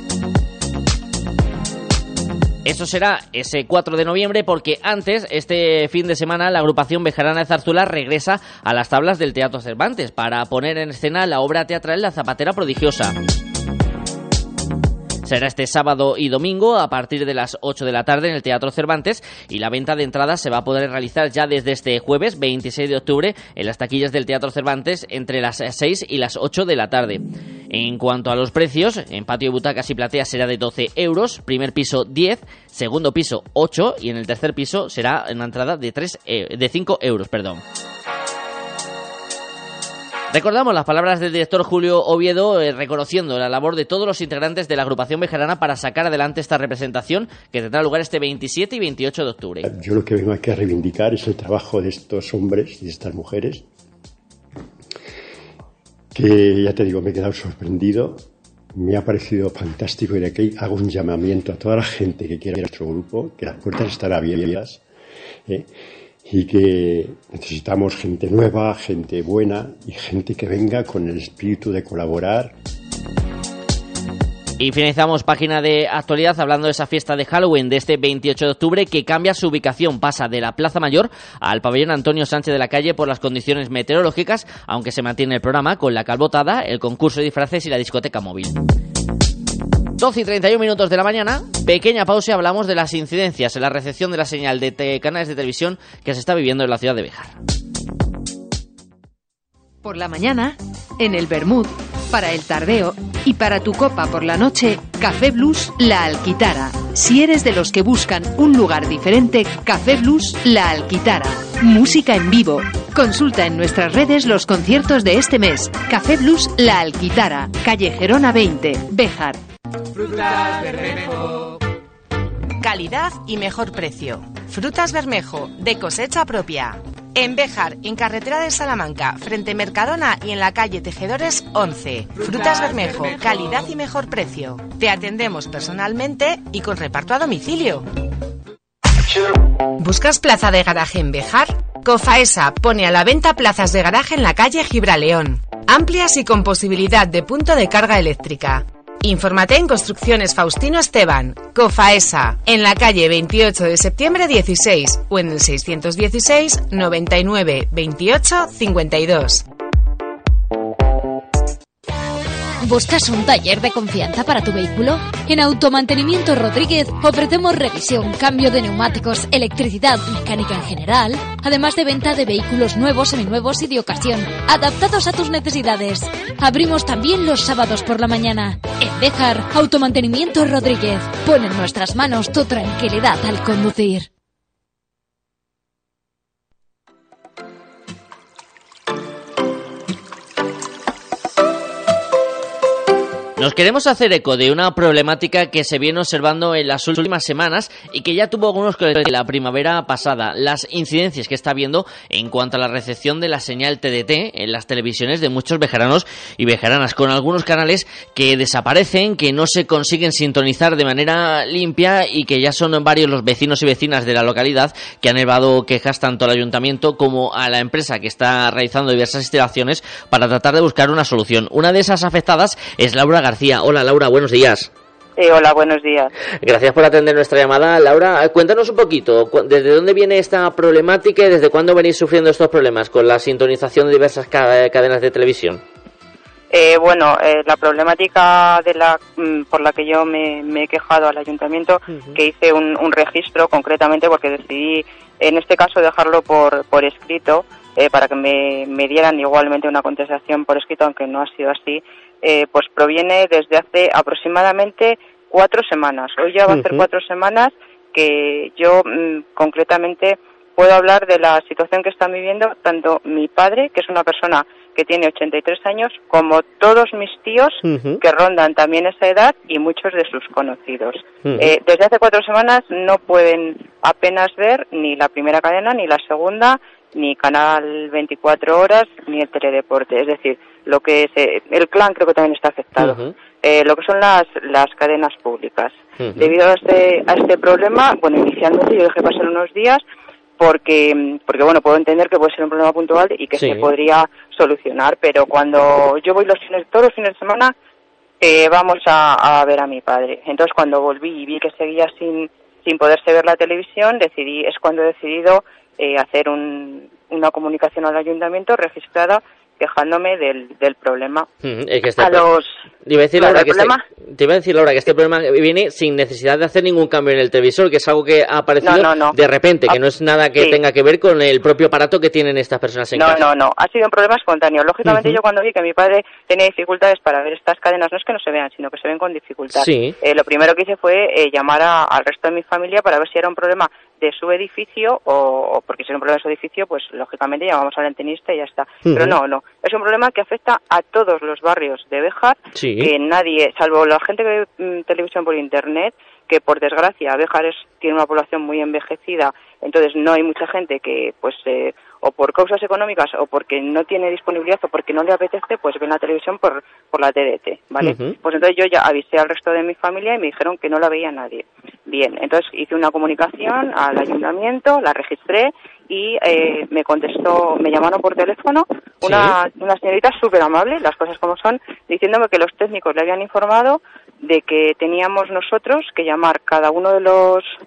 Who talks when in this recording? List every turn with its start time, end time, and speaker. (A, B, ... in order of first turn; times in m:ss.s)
0:02.6-0:13.1 A
0:15.2-0:37.6 A
0:40.3-0:49.6 A
0:49.6-0:53.6 B
0:56.1-0:58.2 B
0:58.8-1:04.8 B
1:06.2-1:12.5 B
1:14.6-1:28.5 A
1:30.0-1:37.3 A
1:39.8-1:59.4 C
2:00.1-2:01.4 D
2:02.6-2:17.8 D
2:19.8-2:39.4 D
2:42.6-3:04.1 E
3:13.4-3:44.7 A
3:45.2-3:46.1 F
3:46.4-3:55.6 A
3:56.5-4:49.8 F
4:01.9-4:02.2 A
4:16.5-4:16.8 A
4:27.6-4:28.0 A
4:31.2-4:31.5 A
4:42.8-4:43.1 A
4:46.0-4:46.3 A
4:50.4-4:57.5 F
4:53.4-4:53.7 A
4:58.2-5:11.3 F
5:11.4-5:12.3 A
5:12.0-5:12.6 F
5:12.8-5:23.2 A
5:13.2-5:13.8 F
5:18.6-5:19.2 F
5:22.9-6:17.5 F
5:24.8-5:25.2 A
5:29.5-5:29.9 A
5:38.8-5:39.2 A
5:42.5-5:42.9 A
5:57.8-5:58.2 A
6:09.0-6:09.3 A